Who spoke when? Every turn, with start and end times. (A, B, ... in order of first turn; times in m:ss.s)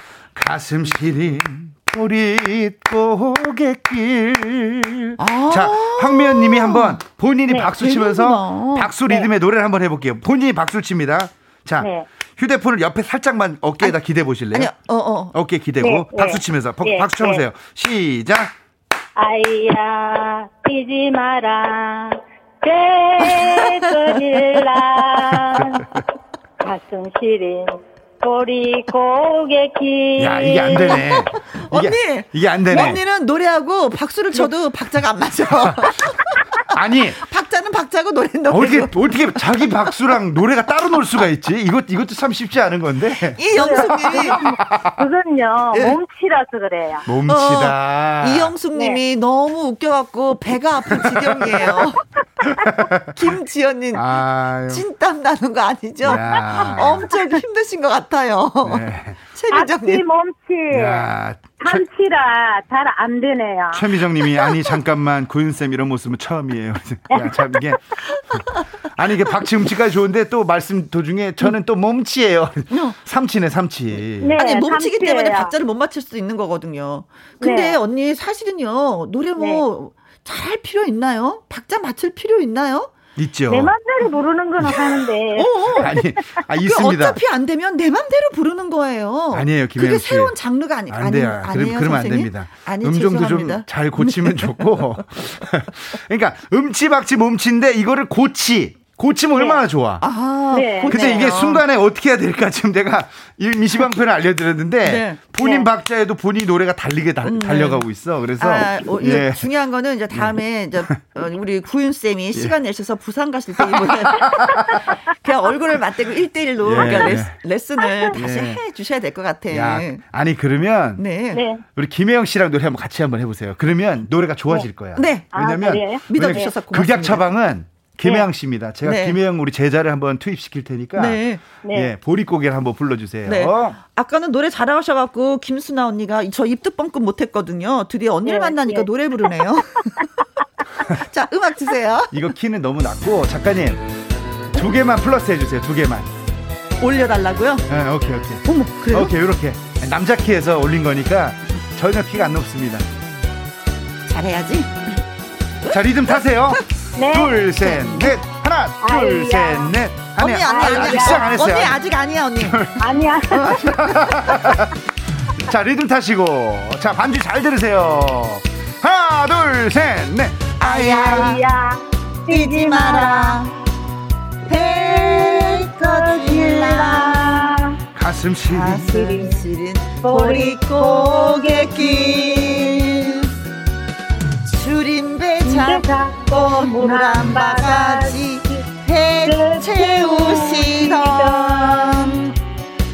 0:00.3-0:14.7 A
0:05.2-0:07.0 B
0:07.8-0:08.9 B
0:11.8-0:12.0 C
0:14.5-0:15.3 B
0:15.3-0:18.5 A
0:15.8-0:17.4 C
0:19.2-0:26.0 C
0:23.2-0:23.9 B
0:26.6-0:31.3 C
0:30.2-0:33.0 A
0:30.8-0:36.2 B
0:36.7-0:37.2 A
0:37.2-0:38.9 B
0:38.5-0:45.0 A
0:43.4-0:44.4 B
0:43.5-0:47.0 C
0:47.0-0:48.5 A
0:47.3-0:52.0 B
0:51.0-0:51.7 A
0:52.5-0:53.2 A
0:53.1-0:54.0 B
0:53.9-0:54.8 A
0:54.7-1:00.0 B
0:56.0-0:57.1 A
0:58.6-0:59.2 A
0:59.5-1:01.1 C
1:00.7-1:01.8 A
1:01.6-1:03.9 C
1:03.7-1:07.8 A
1:07.1-1:07.7 C
1:09.0-1:14.4 A
1:14.2-1:15.5 C
1:14.4-1:22.9 B
1:17.4-1:17.8 C
1:19.4-1:19.6 C
1:23.2-1:23.7 A
1:23.5-1:25.9 C
1:24.6-1:25.0 A
1:25.4-1:25.9 B
1:25.8-1:27.2 A
1:26.6-1:34.8 B
1:29.3-1:30.3 A
1:30.9-1:40.0 A
1:40.0-1:41.6 B
1:40.5-1:41.2 C
1:40.9-1:49.5 A
1:44.8-1:45.4 B
1:47.2-1:47.8 B
1:48.4-1:54.6 B
1:53.6-1:54.8 A
1:55.2-2:00.0 B
1:56.6-1:57.4 A
1:58.1-1:58.6 A
1:59.5-2:01.0 A
2:01.0-2:01.4 B
2:01.3-2:01.6 C
2:01.7-2:13.8 A
2:04.5-2:05.3 B
2:05.3-2:06.5 C
2:06.1-2:07.3 B
2:08.8-2:09.2 B
2:11.0-2:11.4 B
2:11.6-2:11.9 C
2:13.2-2:20.0 B
2:18.2-2:19.4 C
2:20.9-2:22.1 B
2:22.1-2:23.8 A
2:24.5-2:26.1 A
2:26.8-2:27.6 B
2:27.7-2:32.8 A
2:28.4-2:29.1 B
2:34.1-2:35.0 B
2:35.7-2:41.8 A
2:37.0-2:37.4 C
2:38.8-2:39.7 C
2:40.2-2:42.6 B
2:40.4-2:41.2 C
2:42.4-2:44.7 A
2:42.8-2:43.8 C
2:43.5-2:44.1 B
2:45.4-2:51.2 A
2:50.6-2:51.4 B
2:50.8-2:53.4 C
2:52.3-2:53.5 B
2:54.5-2:57.5 B
2:54.9-2:57.8 C
2:57.9-2:58.9 A
2:58.5-3:03.3 B
2:58.8-2:59.4 C
3:00.0-3:02.9 C
3:04.5-3:12.3 B
3:05.4-3:08.6 C
3:09.2-3:12.2 C